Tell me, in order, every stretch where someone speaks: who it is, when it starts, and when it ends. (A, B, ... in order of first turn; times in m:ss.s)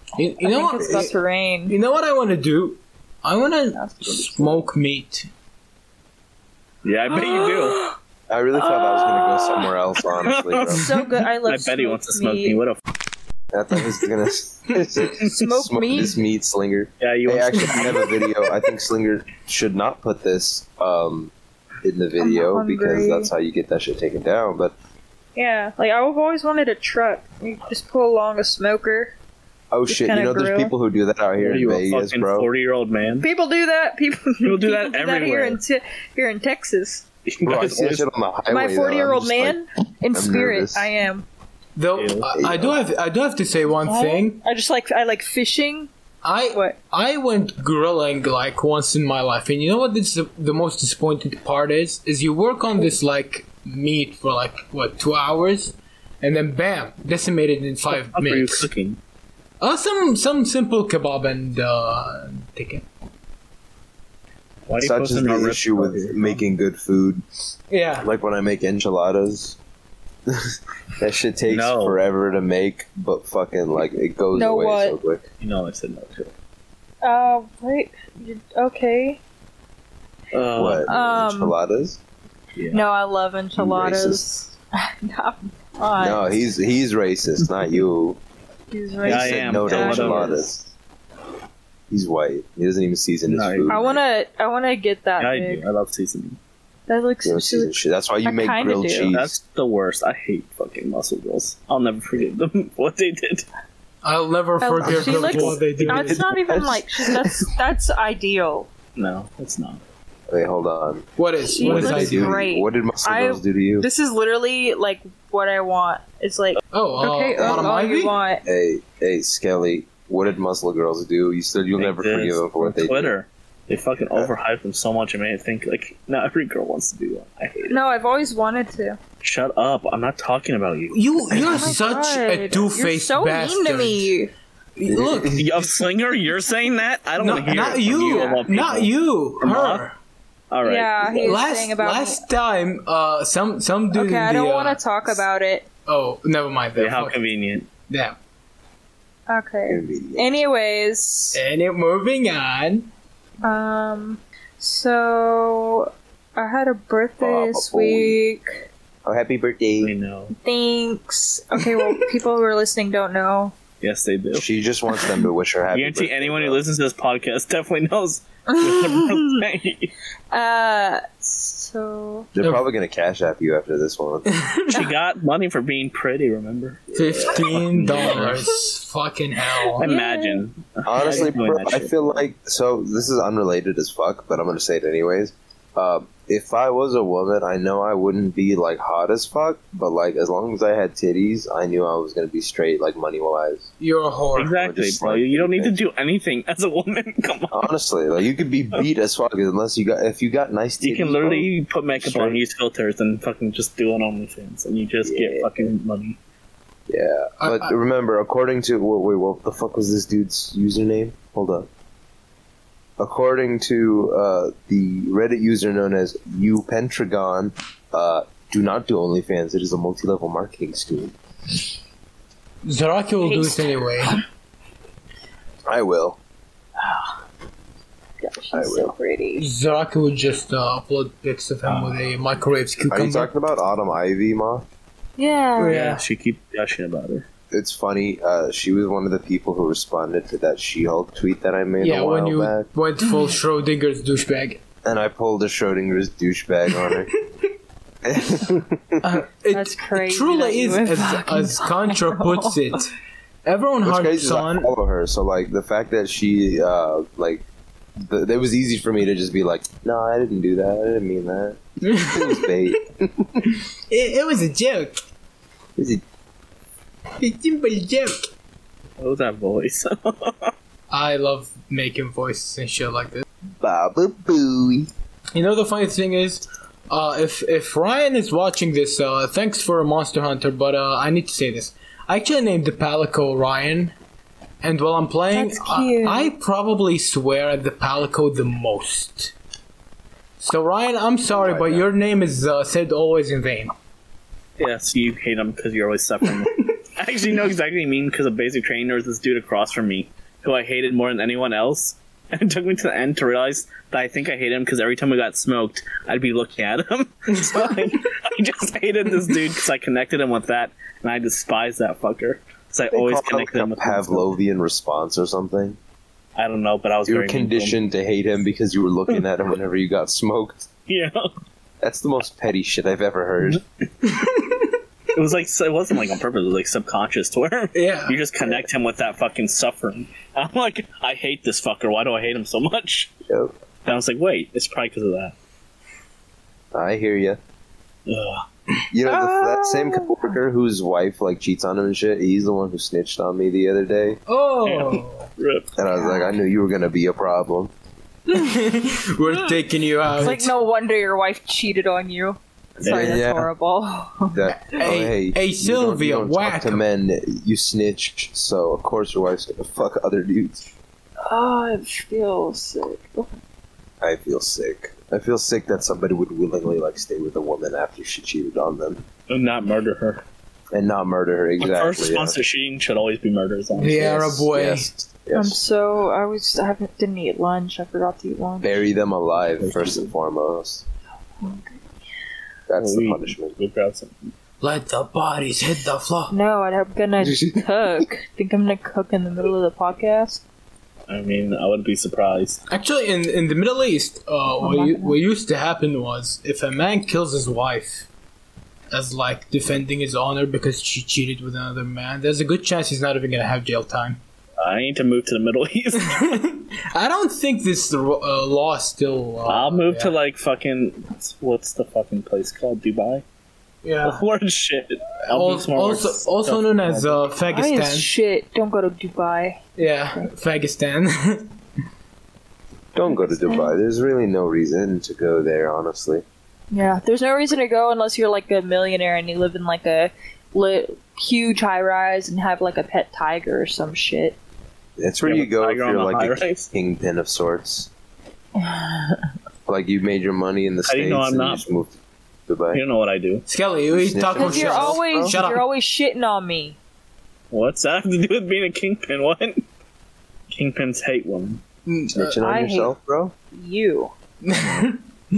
0:00.2-0:01.1 A
0:00.4-0:01.8 B
0:00.8-0:01.1 C
0:01.7-0:05.3 A
0:03.7-0:04.7 B
0:06.8-0:07.8 D
0:07.1-0:08.0 B
0:08.3-0:10.9 C
0:08.6-0:09.7 B
0:10.2-0:10.8 D
0:10.7-0:12.6 B
0:11.4-0:12.8 D
0:13.5-0:24.7 C
0:15.0-0:16.2 B
0:17.0-0:18.3 D
0:22.2-0:23.3 B
0:25.4-0:29.1 B
0:29.7-0:32.5 C
0:29.9-0:30.7 B
0:31.4-0:33.3 D
0:33.2-0:37.0 B
0:34.4-0:35.6 D
0:37.3-0:38.1 D
0:37.4-0:39.6 C
0:38.5-0:41.3 B
0:40.1-0:40.9 C
0:41.8-0:44.4 A
0:42.0-0:42.3 D
0:42.3-0:42.8 C
0:43.8-0:45.9 B
0:46.2-0:58.7 A
0:46.5-0:46.8 B
0:57.9-0:59.0 D
0:59.6-1:02.8 A
1:04.7-1:06.4 D
1:04.8-1:07.2 C
1:07.7-1:08.1 A
1:08.0-1:09.6 C
1:10.3-1:15.2 C
1:11.5-1:12.0 D
1:14.3-1:15.0 B
1:15.4-1:16.3 D
1:17.0-1:19.2 B
1:20.3-1:20.9 D
1:20.6-1:22.0 C
1:20.9-1:21.6 B
1:22.6-1:22.8 D
1:22.7-1:26.5 B
1:23.6-1:24.2 C
1:26.0-1:28.2 C
1:28.7-1:30.5 B
1:29.0-1:30.4 D
1:29.0-1:30.7 C
1:31.9-1:34.0 C
1:33.3-1:33.8 D
1:33.7-1:35.6 B
1:35.2-1:36.4 D
1:36.9-1:39.1 B
1:37.2-1:39.4 C
1:39.1-1:43.4 D
1:44.0-1:46.3 A
1:44.6-1:48.7 B
1:45.1-1:45.4 D
1:45.2-1:47.5 C
1:49.0-1:49.8 D
1:50.3-1:53.9 C
1:51.2-1:52.4 A
1:51.5-1:58.4 B
1:56.7-1:58.2 A
1:57.4-1:57.7 C
1:58.4-2:03.1 C
2:01.8-2:07.8 D
2:07.7-2:09.0 B
2:09.2-2:11.7 D
2:10.9-2:14.2 A
2:11.4-2:14.3 B
2:14.8-2:15.6 A
2:14.9-2:15.5 C
2:15.3-2:19.8 D
2:17.2-2:20.0 A
2:18.0-2:18.4 B
2:20.5-2:21.4 D
2:20.6-2:22.2 B
2:21.2-2:24.8 A
2:23.9-2:25.7 B
2:25.9-2:27.2 A
2:26.8-2:27.7 D
2:27.9-2:28.2 A
2:29.3-2:31.4 B
2:29.7-2:30.4 C
2:31.3-2:32.9 A
2:33.4-2:38.6 B
2:37.2-2:38.2 C
2:39.0-2:39.9 C
2:39.8-2:40.4 D
2:40.4-2:43.5 B
2:43.8-2:44.5 D
2:44.3-2:46.6 C
2:45.7-2:49.9 D
2:48.5-2:49.4 B
2:50.3-2:52.3 B
2:52.3-2:54.4 C
2:54.3-2:54.8 A
2:54.7-2:58.4 D
2:56.9-2:59.9 A
2:57.0-2:57.4 C
2:59.8-3:00.4 B
2:59.8-3:02.2 D
3:00.8-3:13.7 C
3:13.8-3:14.5 A
3:14.4-3:17.7 D
3:14.5-3:15.8 C
3:17.5-3:21.5 C
3:20.8-3:26.2 D
3:22.0-3:22.4 C
3:25.0-3:25.5 C
3:26.9-3:31.7 C
3:27.4-3:27.7 A
3:33.0-3:41.1 C
3:42.6-3:44.2 A
3:43.2-3:44.2 B
3:45.7-3:46.2 C
3:46.8-3:47.1 B
3:48.2-3:49.4 B
3:48.5-3:48.9 C
3:49.4-3:53.3 A
3:51.6-3:52.0 D
3:52.9-3:54.6 C
3:55.2-3:55.8 B
3:55.6-3:56.0 A
3:55.6-3:57.3 D
3:57.5-4:02.7 C
4:01.8-4:04.6 A
4:04.8-4:07.1 C
4:08.0-4:09.0 C
4:09.0-4:12.9 A
4:09.5-4:12.8 B
4:13.4-4:14.7 A
4:13.8-4:17.4 C
4:18.0-4:23.4 C
4:21.8-4:22.5 A
4:23.9-4:25.0 A
4:25.8-4:26.0 C
4:27.2-4:28.3 A
4:29.0-4:30.5 D
4:30.9-4:33.2 A
4:33.6-4:34.9 C
4:35.4-4:43.9 A
4:44.6-4:49.3 A
4:45.3-4:46.3 B
4:50.4-4:53.7 A
4:51.4-4:51.8 C
4:54.6-5:14.3 D
5:07.5-5:07.8 A
5:12.9-5:15.8 C
5:16.4-5:17.8 D
5:17.1-5:20.7 C
5:20.9-5:21.3 D
5:21.8-5:23.6 C
5:24.0-5:24.7 A
5:25.1-5:33.1 D
5:27.7-5:28.2 A
5:28.4-5:28.7 C
5:33.8-5:35.4 D
5:36.7-5:37.4 C
5:38.1-5:38.4 D
5:38.9-5:44.2 C
5:39.1-5:40.3 B
5:44.3-5:45.3 A
5:44.6-5:45.7 D
5:45.8-5:47.7 C
5:45.9-5:46.4 B
5:48.3-5:50.5 A
5:49.3-5:49.6 B
5:50.1-5:54.4 B
5:52.8-5:53.2 D
5:52.8-5:53.5 C
5:54.3-6:00.7 C
5:54.7-5:56.8 A
6:01.2-6:03.3 B
6:04.0-6:09.0 C
6:09.3-6:10.2 D
6:10.7-6:12.4 C
6:11.6-6:14.5 D
6:13.8-6:14.9 A
6:14.5-6:15.6 C
6:15.3-6:18.9 B
6:18.6-6:20.8 C
6:19.6-6:20.1 D
6:21.4-6:21.8 B
6:22.7-6:23.6 C
6:22.8-6:24.3 D
6:24.6-6:26.3 A
6:26.3-6:30.4 B
6:27.2-6:27.6 C
6:31.1-6:32.6 D
6:32.7-6:38.1 A
6:34.6-6:35.2 B
6:38.9-6:44.2 A
6:44.6-6:46.3 D
6:46.0-6:50.1 A
6:49.5-6:53.2 D
6:53.8-6:54.2 A
6:54.0-6:57.3 D
6:55.3-6:58.1 A
6:57.5-6:59.6 B
6:59.8-7:01.5 A
7:02.9-7:06.2 C
7:03.1-7:03.7 B
7:06.7-7:14.4 B
7:15.0-7:17.9 C
7:15.2-7:16.7 D
7:18.6-7:19.3 B
7:19.7-7:22.8 C
7:20.9-7:21.6 D
7:22.7-7:23.4 D
7:23.5-7:25.6 A
7:23.9-7:25.4 C
7:24.4-7:26.8 B
7:27.5-7:29.6 D
7:30.5-7:31.6 D
7:31.9-7:32.4 A
7:32.1-7:33.3 C
7:32.4-7:32.9 B
7:33.5-7:34.1 B
7:34.4-7:35.0 A
7:34.6-7:34.8 C